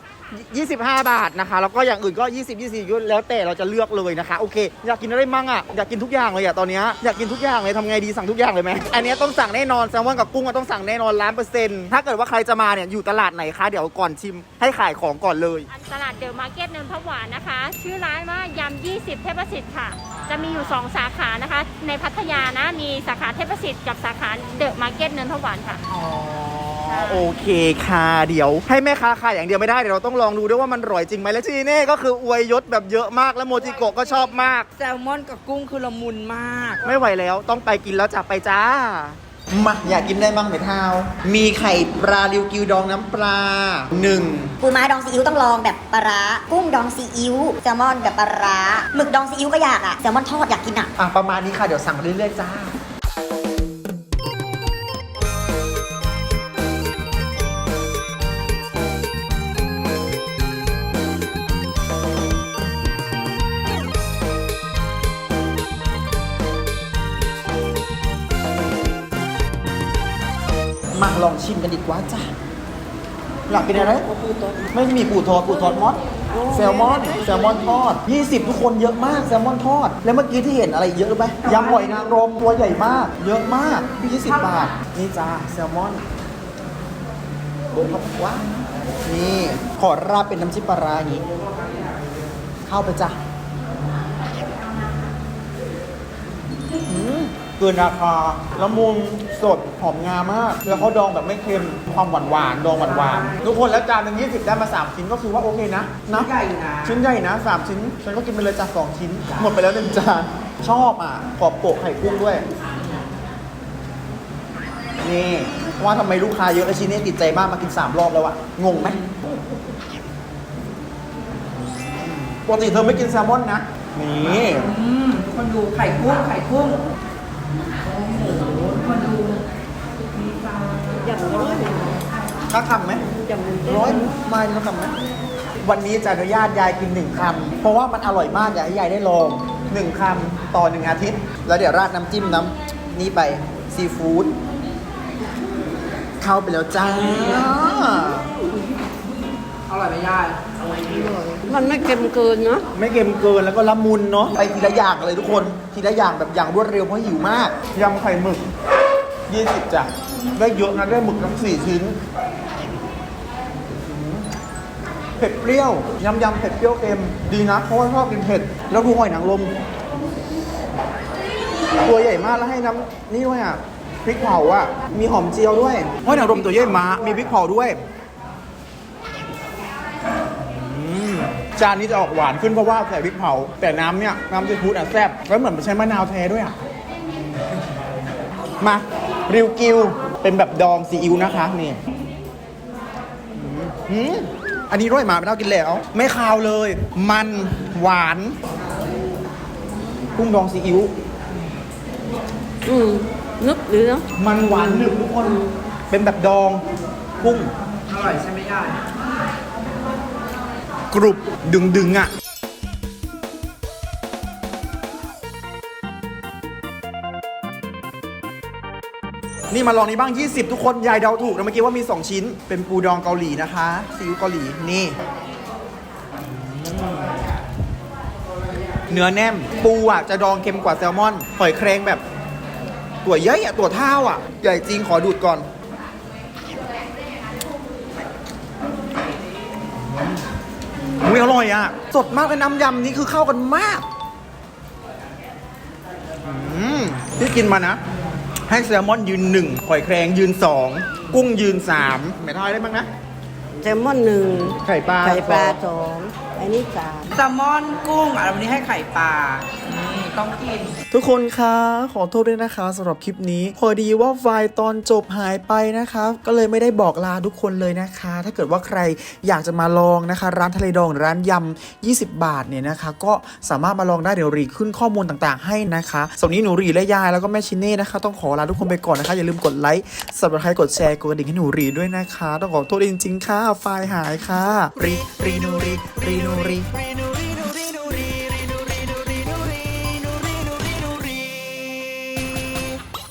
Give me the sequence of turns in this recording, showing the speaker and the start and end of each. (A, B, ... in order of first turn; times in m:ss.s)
0:00.3-0:15.7 A
0:15.7-0:25.8 B
0:26.0-0:34.7 A
0:26.1-0:26.4 C
0:26.8-0:27.2 B
0:34.8-0:36.8 C
0:36.8-0:44.5 A
0:44.6-0:50.9 D
0:51.0-0:52.7 A
1:10.9-1:12.3 A
1:13.5-1:14.1 A
1:14.1-1:14.6 E
1:14.7-1:26.0 A
1:16.4-1:17.0 E
1:27.7-1:28.5 A
1:29.0-1:31.2 A
1:32.7-1:33.2 A
1:36.9-1:46.3 A
1:46.1-1:47.0 C
1:46.8-1:52.4 A
1:55.0-1:59.1 A
2:02.3-2:04.7 A
2:04.8-2:06.8 C
2:08.0-2:09.4 C
2:10.4-2:10.9 C
2:11.0-2:12.0 E
2:12.5-2:15.0 A
2:13.2-2:14.0 E
2:15.6-2:24.3 A
2:26.2-2:28.3 A
2:29.7-2:30.4 C
2:30.8-2:32.6 E
2:32.7-2:38.4 A
2:39.3-2:42.0 A
2:43.7-2:44.2 A
2:45.2-2:49.5 A
2:51.8-2:57.8 A
3:00.4-3:06.6 A
3:08.6-3:11.8 A
3:13.3-3:18.3 A
3:20.2-3:20.9 A
3:22.6-3:24.0 E
3:24.2-3:26.6 A
3:24.6-3:25.5 E
3:27.2-3:27.5 A
3:27.9-3:28.7 C
3:30.9-3:32.1 A
3:39.5-3:45.0 A
3:48.9-3:52.0 A
3:53.0-3:55.4 A
4:01.0-4:03.8 A
4:06.2-4:07.8 A
4:08.5-4:12.9 A
4:13.6-4:17.1 E
4:14.6-4:15.6 A
4:17.1-4:20.7 C
4:20.9-4:52.8 A